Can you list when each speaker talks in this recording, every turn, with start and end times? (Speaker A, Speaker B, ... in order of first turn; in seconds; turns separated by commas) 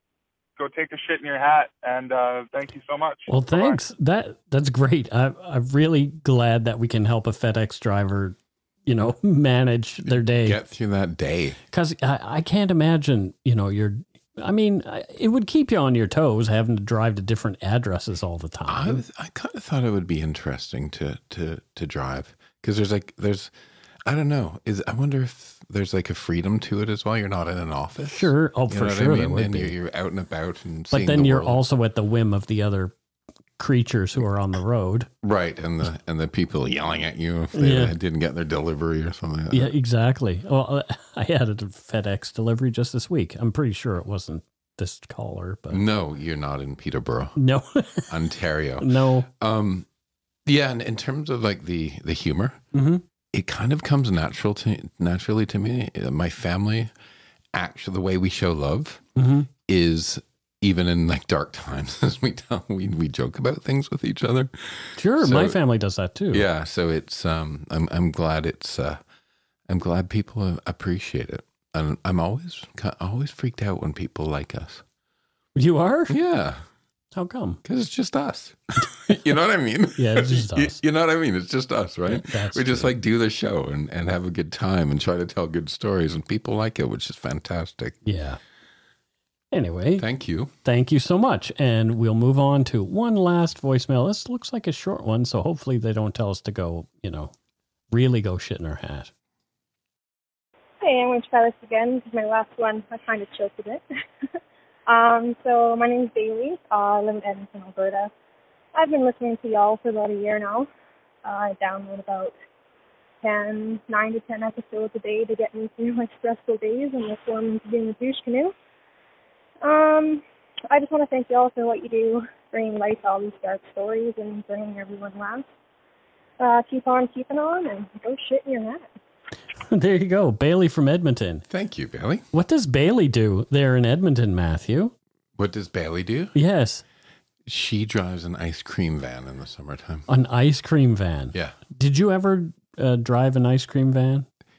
Speaker A: 0.6-3.8, Speaker B: 3.3-10.6, Speaker C: 10.0-11.6, Speaker B: 11.7-19.0, Speaker C: 18.6-23.5, Speaker C: 24.0-31.6, Speaker B: 28.1-29.7, Speaker B: 30.9-32.9, Speaker B: 33.6-35.1, Speaker C: 35.2-39.7, Speaker B: 37.5-37.9, Speaker B: 39.5-45.8, Speaker C: 45.7-47.4, Speaker B: 47.4-48.1, Speaker C: 48.1-49.9, Speaker B: 48.8-49.3, Speaker C: 50.4-52.6, Speaker B: 52.7-53.0, Speaker C: 53.3-56.9, Speaker C: 57.5-59.0, Speaker B: 59.1-59.5, Speaker C: 59.7-65.6, Speaker B: 65.0-66.4, Speaker C: 66.3-69.0, Speaker C: 69.7-74.8, Speaker B: 75.5-76.2, Speaker C: 76.1-76.7, Speaker B: 77.1-77.6, Speaker C: 77.6-88.0, Speaker B: 80.0-80.8, Speaker B: 82.0-82.9, Speaker B: 88.0-88.4, Speaker B: 89.5-90.0, Speaker C: 90.0-90.5, Speaker B: 90.6-97.3, Speaker B: 97.9-99.1, Speaker D: 100.8-103.8, Speaker D: 104.9-108.1, Speaker D: 108.7-110.7, Speaker D: 111.2-112.3, Speaker D: 113.2-118.5, Speaker D: 119.6-125.5, Speaker D: 126.4-128.9, Speaker B: 129.7-131.4, Speaker C: 131.5-132.2, Speaker B: 132.3-134.9, Speaker C: 135.3-136.3, Speaker B: 136.3-136.8, Speaker C: 137.4-140.1, Speaker B: 140.1-144.3